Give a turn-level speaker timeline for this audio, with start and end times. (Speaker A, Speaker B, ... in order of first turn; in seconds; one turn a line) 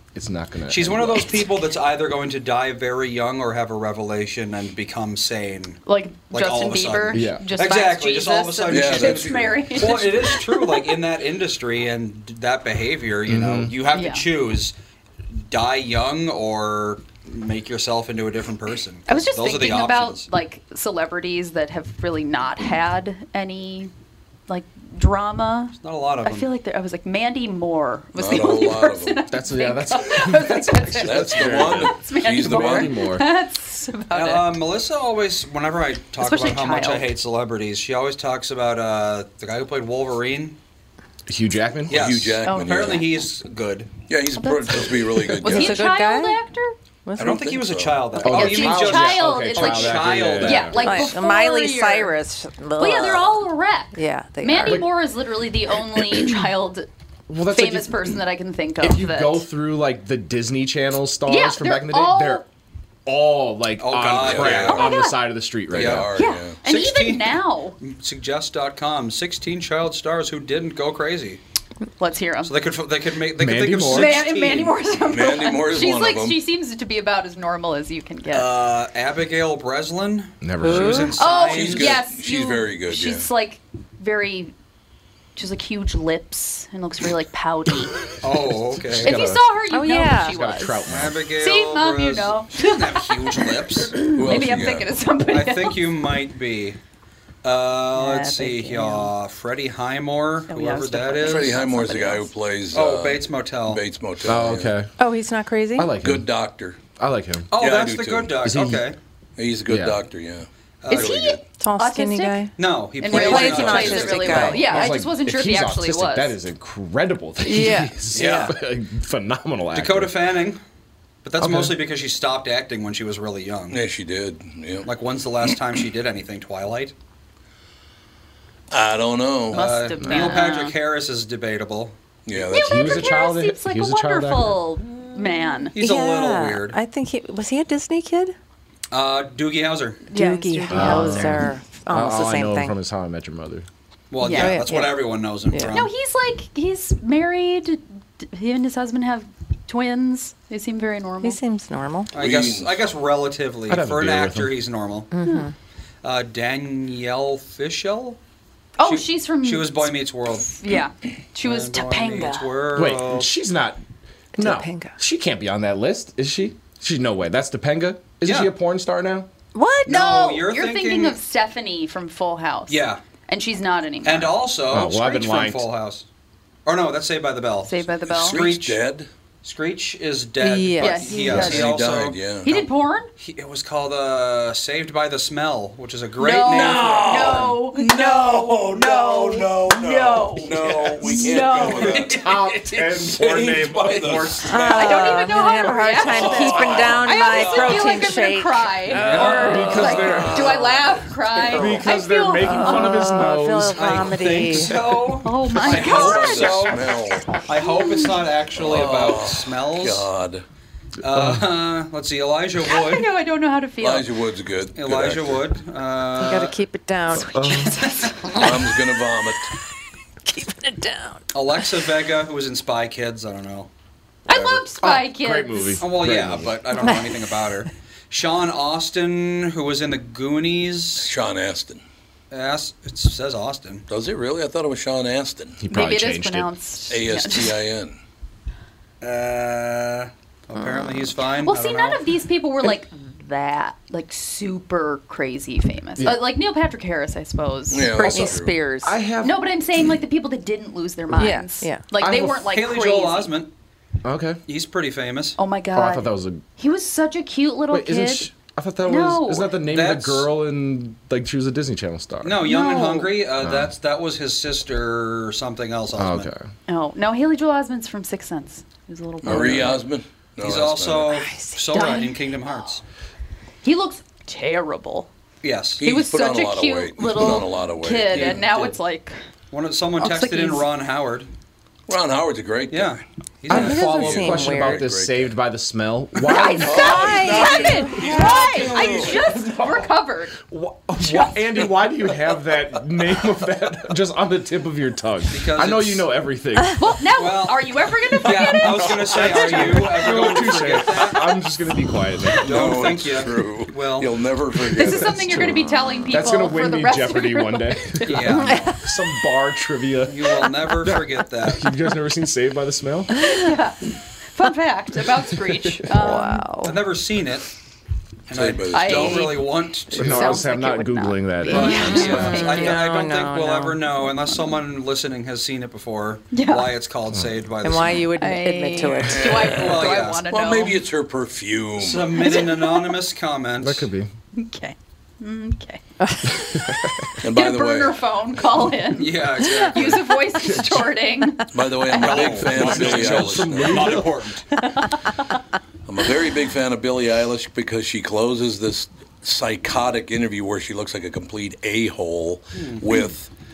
Speaker A: 0.1-1.4
Speaker B: 0.7-14.7
Speaker C: 5.9-11.0
Speaker A: 7.1-7.5
Speaker D: 8.7-10.0
Speaker A: 13.3-13.7
Speaker C: 13.9-14.3
Speaker B: 15.5-20.3
Speaker C: 19.1-23.9
Speaker C: 24.5-34.6
Speaker B: 25.8-26.5
Speaker D: 28.1-29.2
Speaker A: 29.3-33.3
Speaker D: 31.0-33.0
Speaker B: 34.1-40.6
Speaker C: 36.2-37.2
Speaker A: 41.3-42.3
Speaker D: 41.9-43.1
Speaker B: 41.9-43.9
Speaker C: 42.4-43.2
Speaker D: 44.1-45.8
Speaker C: 44.3-46.7
Speaker E: 45.4-46.4
Speaker E: 47.1-47.5
Speaker D: 47.2-48.3
Speaker B: 47.2-51.2
Speaker A: 48.2-50.8
Speaker C: 48.2-52.1
Speaker E: 50.8-54.9
Speaker C: 52.8-56.9
Speaker A: 54.6-54.9
Speaker A: 57.3-58.2
Speaker C: 57.5-59.4
Speaker A: 58.8-62.4
Speaker C: 61.3-62.4
Speaker A: 63.0-66.2
Speaker B: 63.8-65.0
Speaker D: 64.1-65.0
Speaker C: 64.9-65.2
Speaker D: 65.7-66.6
Speaker B: 65.8-66.0
Speaker C: 66.1-67.8
Speaker B: 66.6-71.4
Speaker C: 72.0-72.7
Speaker B: 72.4-74.8
Speaker A: 73.4-74.2
Speaker C: 73.9-78.6
Speaker D: 75.0-76.4
Speaker B: 78.3-81.9
Speaker A: 80.4-81.2
Speaker E: 80.6-81.2
Speaker C: 81.2-84.5
Speaker D: 81.4-83.3
Speaker C: 85.4-88.0
Speaker B: 88.2-89.2
Speaker A: 88.8-89.5
Speaker C: 89.0-95.9
Speaker E: 89.7-90.4
Speaker A: 90.2-91.3
Speaker B: 90.9-94.0
Speaker D: 94.1-94.9
Speaker B: 95.3-96.8
Speaker B: 97.4-101.5
Speaker E: 98.0-99.1
Speaker C: 100.5-102.3
Speaker D: 101.2-104.8
Speaker B: 102.7-103.8
Speaker A: 104.2-104.9
Speaker E: 105.0-105.9
Speaker A: 105.8-106.3
Speaker D: 106.0-106.8
Speaker A: 107.0-107.5
Speaker B: 107.5-109.0
Speaker D: 107.5-108.5
Speaker A: 108.4-108.9
Speaker D: 109.4-111.4
Speaker A: 109.7-110.0
Speaker B: 110.8-111.2
Speaker C: 110.9-116.4
Speaker E: 111.6-114.9
Speaker B: 112.5-114.5
Speaker D: 113.7-114.2
Speaker A: 113.9-120.2
Speaker E: 117.4-118.5
Speaker D: 118.1-118.5
Speaker B: 119.7-120.6
Speaker B: 121.2-123.8
Speaker A: 121.4-121.8
Speaker D: 123.7-124.9
Speaker B: 124.9-126.9
Speaker D: 128.7-129.6
Speaker C: 129.5-130.8
Speaker B: 129.5-131.9
Speaker D: 132.3-133.3
Speaker C: 132.5-135.8
Speaker A: 132.5-134.6
Speaker E: 135.5-138.3
Speaker B: 135.7-136.8
Speaker B: 138.9-140.1
Speaker C: 140.1-141.4
Speaker E: 140.1-142.8
Speaker A: 140.7-143.7
Speaker B: 144.1-145.9
Speaker C: 144.2-144.7
Speaker E: 144.2-145.9
Speaker C: 145.7-151.4
Speaker E: 151.2-152.1
Speaker B: 152.1-155.1
Speaker D: 152.2-152.8
Speaker A: 153.7-154.6
Speaker E: 155.1-155.5
Speaker C: 155.2-155.5
Speaker B: 156.0-158.2
Speaker C: 158.8-159.9
Speaker B: 158.8-160.6
Speaker C: 160.5-162.6
Speaker B: 161.4-163.3
Speaker A: 162.7-163.8
Speaker A: 164.4-169.3
Speaker E: 164.4-164.9
Speaker B: 168.2-168.5
Speaker E: 169.5-170.0
Speaker B: 169.9-171.2
Speaker C: 169.9-174.4
Speaker B: 172.7-173.0
Speaker B: 174.0-176.1
Speaker A: 174.7-175.7
Speaker B: 176.7-178.8
Speaker C: 177.6-178.4
Speaker D: 178.1-179.1
Speaker B: 179.4-187.4
Speaker E: 180.4-181.6
Speaker C: 180.8-181.7
Speaker D: 181.3-182.5
Speaker C: 182.4-183.1
Speaker C: 186.2-192.0
Speaker D: 186.3-194.7
Speaker B: 190.7-191.2
Speaker A: 191.7-195.2
Speaker B: 191.7-192.4
Speaker E: 194.4-200.0
Speaker C: 194.6-203.1
Speaker D: 196.0-198.1
Speaker B: 198.9-199.8
Speaker A: 198.9-200.7
Speaker D: 199.7-200.9
Speaker A: 201.4-205.0
Speaker E: 202.4-204.8
Speaker B: 203.8-206.8
Speaker C: 205.2-206.8
Speaker D: 205.5-207.4
Speaker B: 207.4-210.1
Speaker C: 207.6-208.3
Speaker D: 208.6-210.4
Speaker B: 211.0-213.1
Speaker A: 211.1-211.4
Speaker C: 212.6-214.1
Speaker D: 213.8-215.4
Speaker B: 214.8-216.6
Speaker E: 216.2-217.6
Speaker A: 217.1-217.8
Speaker C: 217.2-218.7
Speaker D: 218.3-219.5
Speaker E: 220.3-221.2
Speaker B: 221.3-223.7
Speaker C: 224.3-225.9
Speaker B: 224.3-224.6
Speaker A: 224.8-226.6
Speaker B: 225.8-231.1
Speaker D: 231.0-231.8
Speaker B: 232.3-233.9
Speaker D: 233.9-235.6
Speaker A: 235.6-236.5
Speaker C: 235.7-237.7
Speaker D: 236.9-238.0
Speaker B: 239.0-242.0
Speaker E: 240.6-240.9
Speaker C: 241.4-248.0
Speaker D: 247.7-248.6
Speaker E: 247.9-248.9
Speaker A: 248.0-249.5
Speaker C: 249.2-253.4
Speaker E: 251.1-251.8
Speaker A: 252.0-252.4
Speaker B: 252.2-253.5
Speaker A: 254.0-254.4
Speaker B: 254.5-255.4
Speaker C: 255.4-258.3
Speaker A: 255.7-256.4
Speaker A: 257.7-262.5
Speaker C: 258.8-259.5
Speaker B: 259.6-260.3
Speaker B: 262.2-266.3
Speaker C: 262.4-263.2
Speaker A: 263.4-263.7
Speaker A: 266.0-266.5
Speaker C: 266.7-269.9
Speaker A: 269.2-269.5
Speaker D: 269.2-271.2
Speaker B: 270.4-272.8
Speaker E: 271.1-271.6
Speaker C: 271.7-272.3
Speaker C: 273.6-275.1
Speaker B: 275.4-275.8
Speaker D: 275.8-278.4
Speaker C: 275.8-279.1
Speaker B: 278.1-278.8
Speaker B: 279.5-281.3
Speaker C: 280.0-280.7
Speaker D: 281.9-283.0
Speaker B: 282.7-284.5
Speaker A: 283.5-289.9
Speaker E: 283.5-284.9
Speaker D: 283.6-285.3
Speaker D: 286.2-289.1
Speaker C: 286.3-290.4
Speaker E: 286.7-288.0
Speaker B: 288.4-289.1
Speaker A: 290.4-296.9
Speaker C: 291.0-291.3
Speaker B: 295.3-296.1
Speaker C: 296.8-300.7
Speaker B: 297.1-297.6
Speaker B: 298.2-301.4
Speaker A: 298.3-302.6
Speaker D: 302.4-305.2
Speaker B: 302.4-304.1
Speaker C: 304.7-308.3
Speaker A: 304.8-313.3
Speaker B: 308.1-308.6
Speaker B: 310.1-311.7
Speaker C: 313.2-313.8
Speaker C: 314.3-316.7
Speaker A: 315.5-315.9
Speaker E: 315.9-316.8
Speaker B: 316.6-317.5
Speaker B: 318.3-320.4
Speaker D: 318.3-319.5
Speaker C: 318.7-322.9
Speaker A: 319.9-322.4
Speaker B: 321.5-328.1
Speaker E: 321.5-324.1
Speaker C: 326.3-326.7
Speaker E: 327.6-329.5
Speaker C: 328.1-330.8
Speaker D: 329.0-332.2
Speaker B: 329.5-330.2
Speaker B: 331.8-333.9
Speaker C: 332.1-333.0
Speaker A: 333.6-334.1
Speaker C: 334.3-336.7
Speaker E: 336.0-336.3
Speaker A: 336.5-336.9
Speaker D: 337.2-338.0
Speaker C: 337.3-342.3
Speaker B: 338.9-340.1
Speaker A: 340.4-340.9
Speaker D: 341.5-344.0
Speaker B: 341.9-344.4
Speaker A: 342.3-344.1
Speaker C: 344.6-345.1
Speaker D: 345.9-353.3
Speaker B: 352.6-352.8